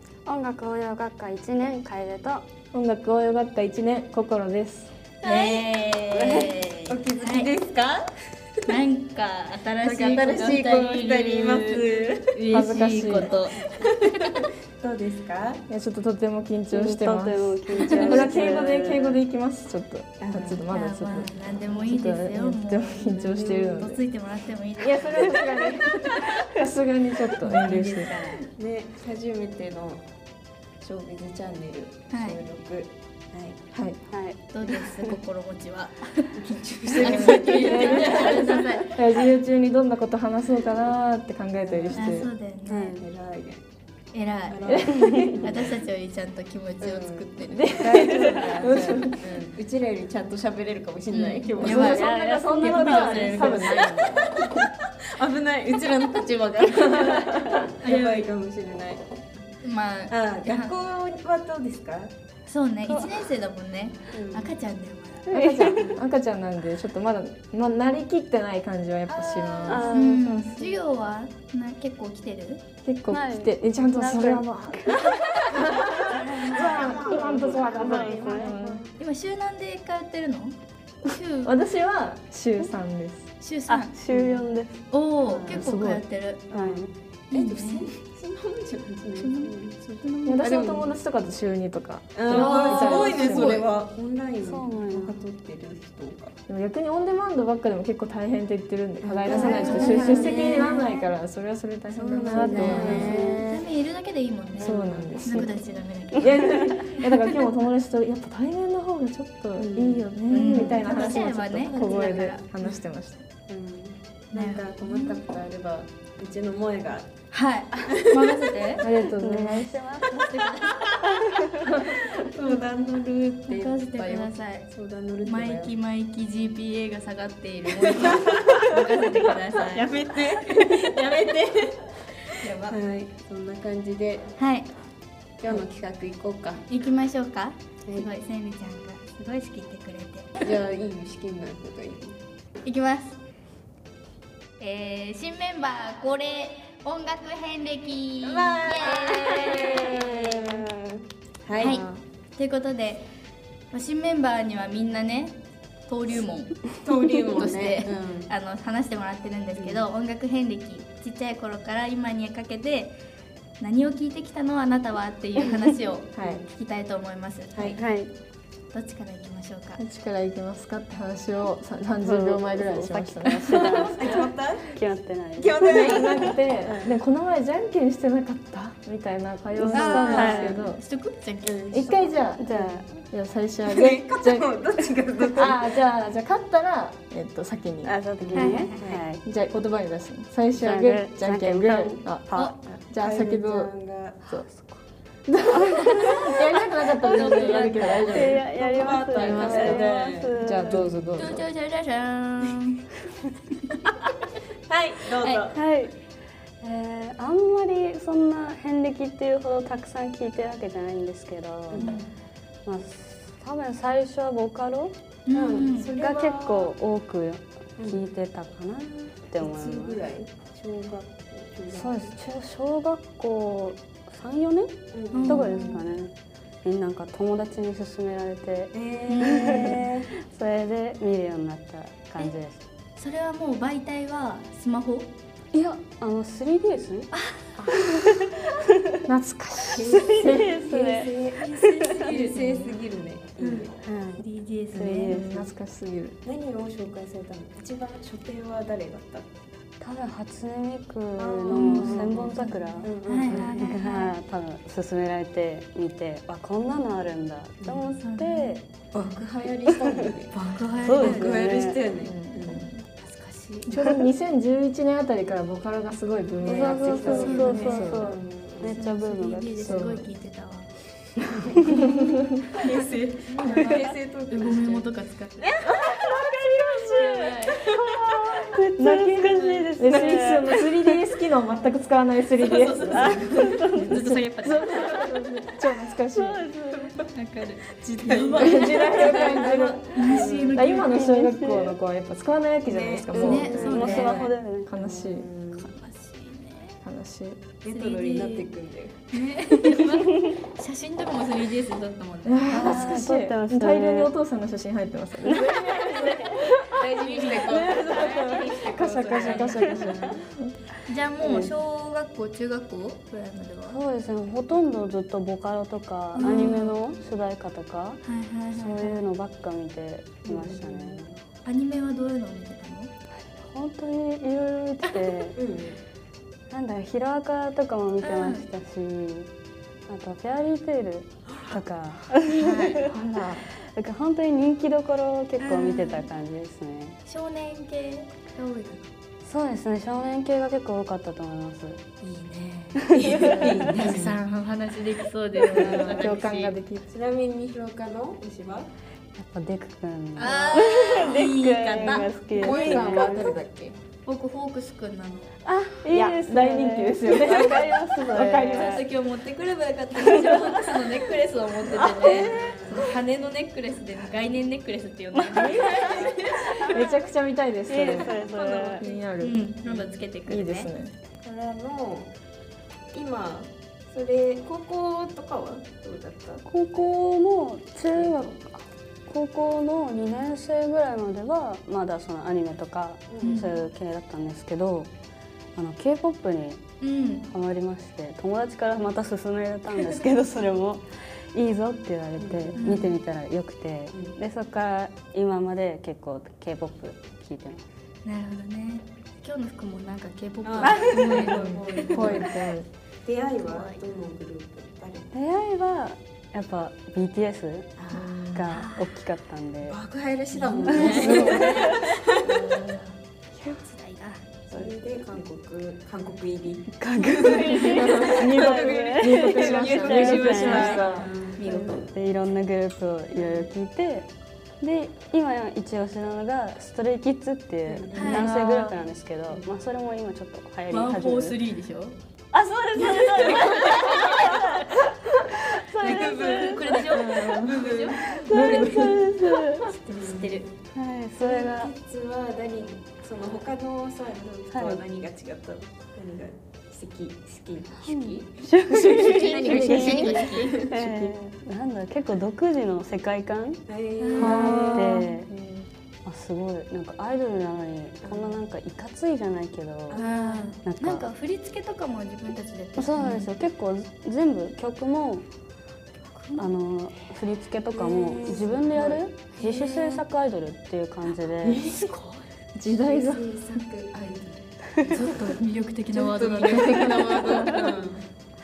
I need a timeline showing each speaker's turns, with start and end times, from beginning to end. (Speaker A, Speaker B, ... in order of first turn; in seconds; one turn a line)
Speaker A: 0.2-2.4
Speaker B: 2.7-4.9
Speaker C: 5.2-7.5
Speaker D: 5.2-8.1
Speaker C: 8.7-14.4
Speaker D: 9.8-12.4
Speaker B: 12.5-13.3
Speaker D: 13.6-15.6
Speaker B: 15.7-24.0
Speaker A: 16.7-19.2
Speaker C: 17.8-18.2
Speaker D: 17.9-18.3
Speaker D: 20.2-20.6
Speaker C: 20.7-26.3
Speaker D: 23.1-23.9
Speaker B: 24.8-28.2
Speaker C: 27.4-28.5
Speaker D: 28.4-30.1
Speaker D: 30.8-33.6
Speaker C: 32.1-32.4
Speaker B: 33.7-34.0
Speaker A: 34.1-35.1
Speaker C: 34.5-36.4
Speaker D: 36.3-38.7
Speaker B: 36.9-42.3
Speaker C: 36.9-39.0
Speaker D: 41.6-42.2
Speaker C: 41.9-43.0
Speaker A: 42.7-43.0
Speaker D: 42.8-43.6
Speaker C: 44.1-48.1
Speaker D: 44.5-45.8
Speaker B: 44.6-45.7
Speaker D: 46.8-52.0
Speaker B: 47.5-49.4
Speaker C: 51.1-54.0
Speaker B: 51.6-54.4
Speaker A: 51.6-53.8
Speaker D: 53.7-54.3
Speaker D: 55.0-59.0
Speaker B: 56.9-57.6
Speaker C: 57.8-58.3
Speaker C: 59.6-60.7
Speaker D: 60.1-62.1
Speaker C: 62.5-65.3
Speaker A: 62.9-63.2
Speaker D: 64.1-64.5
Speaker B: 65.3-69.9
Speaker A: 65.3-65.9
Speaker D: 69.1-70.2
Speaker A: 69.6-70.7
Speaker C: 69.9-72.6
Speaker B: 72.8-78.8
Speaker A: 73.1-78.6
Speaker C: 75.7-77.2
Speaker D: 77.5-78.8
Speaker C: 77.9-78.3
Speaker C: 79.0-81.5
Speaker B: 81.4-83.3
Speaker C: 83.4-84.0
Speaker A: 83.7-84.8
Speaker D: 84.1-84.4
Speaker C: 84.9-86.5
Speaker D: 85.2-85.7
Speaker B: 85.5-86.0
Speaker D: 86.5-90.9
Speaker A: 86.5-86.9
Speaker C: 87.3-87.8
Speaker C: 89.2-89.5
Speaker C: 90.0-90.5
Speaker B: 90.2-93.6
Speaker D: 92.1-96.3
Speaker C: 92.3-93.7
Speaker A: 94.4-95.2
Speaker B: 96.5-103.4
Speaker D: 99.0-100.9
Speaker A: 99.2-100.4
Speaker C: 99.3-101.0
Speaker D: 101.9-103.7
Speaker A: 102.3-103.2
Speaker C: 102.5-107.1
Speaker B: 104.6-105.5
Speaker B: 106.2-113.2
Speaker D: 109.6-112.7
Speaker C: 110.3-112.4
Speaker D: 113.5-117.1
Speaker C: 114.3-115.2
Speaker C: 117.3-118.8
Speaker D: 117.8-118.5
Speaker B: 118.8-120.0
Speaker A: 118.9-120.3
Speaker C: 120.1-121.0
Speaker A: 121.1-121.6
Speaker B: 121.6-122.5
Speaker C: 122.4-124.7
Speaker D: 122.4-125.7
Speaker C: 125.2-131.0
Speaker D: 127.8-129.0
Speaker D: 129.5-134.3
Speaker C: 132.4-132.8
Speaker C: 134.4-134.7
Speaker D: 135.4-136.6
Speaker C: 136.7-140.3
Speaker D: 140.4-142.2
Speaker C: 142.6-143.2
Speaker C: 144.6-150.5
Speaker D: 148.2-152.0
Speaker C: 151.6-153.1
Speaker C: 153.7-163.0
Speaker D: 156.8-158.3
Speaker D: 159.6-159.8
Speaker C: 163.6-167.7
Speaker D: 166.1-166.4
Speaker D: 167.5-167.8
Speaker A: 167.8-168.1
Speaker C: 168.7-169.8
Speaker B: 169.8-173.9
Speaker A: 172.0-176.3
Speaker C: 173.5-174.2
Speaker D: 173.7-174.8
Speaker D: 175.4-176.9
Speaker B: 175.6-180.8
Speaker C: 175.7-176.0
Speaker A: 179.5-180.6
Speaker D: 179.7-180.6
Speaker C: 179.7-182.0
Speaker D: 181.4-182.8
Speaker B: 181.7-182.4
Speaker A: 182.4-182.9
Speaker B: 183.1-184.5
Speaker D: 183.6-185.7
Speaker B: 185.3-188.0
Speaker A: 187.8-189.2
Speaker D: 188.2-189.0
Speaker C: 188.3-188.8
Speaker B: 189.2-193.7
Speaker A: 190.6-192.5
Speaker D: 192.4-194.3
Speaker A: 194.4-194.8
Speaker B: 195.3-198.4
Speaker A: 195.6-196.3
Speaker C: 196.1-196.3
Speaker C: 197.0-198.2
Speaker D: 197.2-200.9
Speaker A: 198.1-200.8
Speaker B: 199.1-201.4
Speaker C: 199.5-199.8
Speaker C: 201.1-202.8
Speaker D: 204.7-205.6
Speaker C: 205.2-205.5
Speaker A: 205.5-205.9
Speaker A: 206.6-211.9
Speaker D: 211.7-212.0
Speaker C: 211.8-212.1
Speaker A: 212.6-214.9
Speaker C: 215.2-215.9
Speaker D: 215.3-216.7
Speaker A: 216.0-220.0
Speaker D: 219.4-222.1
Speaker A: 221.7-226.1
Speaker D: 224.9-225.5
Speaker C: 225.1-225.9
Speaker A: 226.6-232.6
Speaker D: 228.7-230.1
Speaker C: 229.1-229.8
Speaker C: 233.0-235.1
Speaker A: 235.5-237.1
Speaker B: 237.6-238.3
Speaker A: 237.8-239.0
Speaker B: 239.0-240.5
Speaker D: 239.7-243.7
Speaker A: 239.9-242.1
Speaker C: 241.7-242.5
Speaker B: 242.1-242.7
Speaker A: 243.8-245.5
Speaker C: 244.2-245.2
Speaker D: 244.9-245.2
Speaker B: 245.1-246.2
Speaker D: 246.2-249.3
Speaker A: 249.8-258.6
Speaker D: 251.2-253.7
Speaker C: 251.5-254.2
Speaker C: 258.0-258.6
Speaker D: 258.9-262.8
Speaker A: 259.4-260.1
Speaker C: 260.3-261.4
Speaker A: 260.7-261.9
Speaker B: 262.0-262.7
Speaker C: 263.0-263.7
Speaker B: 263.6-268.2
Speaker D: 266.4-268.8
Speaker A: 266.4-270.0
Speaker C: 267.1-267.7
Speaker C: 268.7-270.7
Speaker B: 269.6-270.1
Speaker A: 271.2-271.8
Speaker D: 271.5-274.9
Speaker B: 271.6-272.4
Speaker C: 273.4-275.6
Speaker D: 275.4-277.8
Speaker B: 275.8-277.2
Speaker C: 276.8-277.7
Speaker A: 277.7-281.0
Speaker B: 277.9-286.5
Speaker C: 282.4-285.0
Speaker A: 282.9-284.1
Speaker A: 286.1-287.0
Speaker C: 287.0-291.0
Speaker D: 287.7-290.7
Speaker B: 288.1-295.3
Speaker A: 290.8-291.7
Speaker D: 292.6-295.7
Speaker A: 293.1-294.7
Speaker C: 293.1-294.2
Speaker C: 295.6-296.8
Speaker B: 296.8-297.4
Speaker D: 297.6-299.0
Speaker C: 297.7-298.5
Speaker C: 299.1-302.7
Speaker A: 299.8-300.3
Speaker B: 302.2-310.5
Speaker A: 302.4-304.1
Speaker A: 305.2-305.7
Speaker D: 306.6-310.2
Speaker C: 307.1-309.9
Speaker C: 310.8-313.8
Speaker A: 311.2-311.5
Speaker A: 313.7-318.0
Speaker C: 316.1-316.8
Speaker C: 318.0-319.0
Speaker A: 318.5-321.2
Speaker D: 320.2-321.0
Speaker C: 321.4-322.9
Speaker A: 323.2-325.4
Speaker D: 325.3-325.8
Speaker A: 326.5-329.3
Speaker C: 328.0-328.4
Speaker A: 329.9-332.9
Speaker C: 332.2-332.9
Speaker B: 332.4-333.5
Speaker A: 333.5-337.0
Speaker C: 335.4-336.1
Speaker C: 337.0-338.9
Speaker A: 339.2-341.8
Speaker C: 342.0-346.5
Speaker A: 342.8-343.9
Speaker D: 342.9-344.2
Speaker B: 345.5-346.9
Speaker D: 345.5-346.1
Speaker D: 346.9-348.7
Speaker A: 349.2-353.4
Speaker C: 350.1-353.0
Speaker D: 350.3-351.0
Speaker D: 351.8-353.8
Speaker C: 354.1-355.3
Speaker A: 355.4-358.9
Speaker B: 355.8-358.8
Speaker C: 358.2-366.8
Speaker A: 360.0-360.9
Speaker A: 361.8-362.6
Speaker D: 362.0-362.9
Speaker A: 365.1-367.0
Speaker B: 365.4-369.4
Speaker A: 367.7-368.8
Speaker C: 368.3-370.7
Speaker B: 370.3-370.9
Speaker D: 371.2-372.1
Speaker D: 372.9-376.4
Speaker A: 376.4-384.9
Speaker D: 377.9-378.3
Speaker D: 383.1-383.4
Speaker C: 383.2-383.5
Speaker A: 385.5-386.6
Speaker C: 386.8-387.3
Speaker A: 387.2-397.7
Speaker D: 392.2-392.9
Speaker C: 392.6-392.9
Speaker C: 398.0-402.3
Speaker D: 400.4-402.4
Speaker A: 400.7-401.1
Speaker B: 400.8-402.7
Speaker D: 403.0-405.1
Speaker C: 403.5-403.8
Speaker A: 405.1-409.8
Speaker C: 407.8-409.0
Speaker B: 407.9-408.4
Speaker D: 409.7-412.6
Speaker C: 410.3-411.7
Speaker A: 410.6-411.9
Speaker B: 410.7-412.8
Speaker C: 412.3-412.7
Speaker C: 413.4-414.2
Speaker D: 414.5-421.8
Speaker A: 416.8-420.9
Speaker B: 417.6-421.1
Speaker C: 420.2-420.8
Speaker C: 421.4-421.8
Speaker A: 421.5-424.1
Speaker D: 423.1-423.5
Speaker A: 424.6-431.4
Speaker D: 427.7-428.3
Speaker C: 427.9-428.3
Speaker B: 428.0-428.8
Speaker C: 430.7-431.9
Speaker A: 432.3-436.9
Speaker C: 432.8-434.8
Speaker D: 435.8-438.9
Speaker C: 435.8-438.9
Speaker B: 436.9-439.1
Speaker A: 438.1-439.7
Speaker C: 439.6-440.5
Speaker D: 439.9-440.4
Speaker A: 440.7-441.7
Speaker D: 441.2-451.1
Speaker A: 444.5-444.8
Speaker A: 447.8-453.6
Speaker C: 449.3-450.6
Speaker D: 453.7-455.6
Speaker C: 454.0-454.8
Speaker B: 454.1-455.1
Speaker A: 454.1-455.3
Speaker A: 456.0-460.0
Speaker D: 458.0-458.4
Speaker D: 459.9-460.6
Speaker C: 459.9-463.3
Speaker A: 460.6-461.1
Speaker A: 462.8-465.2
Speaker C: 466.1-466.4
Speaker A: 466.4-471.6
Speaker D: 467.7-470.0
Speaker B: 471.4-473.3
Speaker D: 472.6-475.1
Speaker C: 474.8-477.8
Speaker D: 475.9-478.0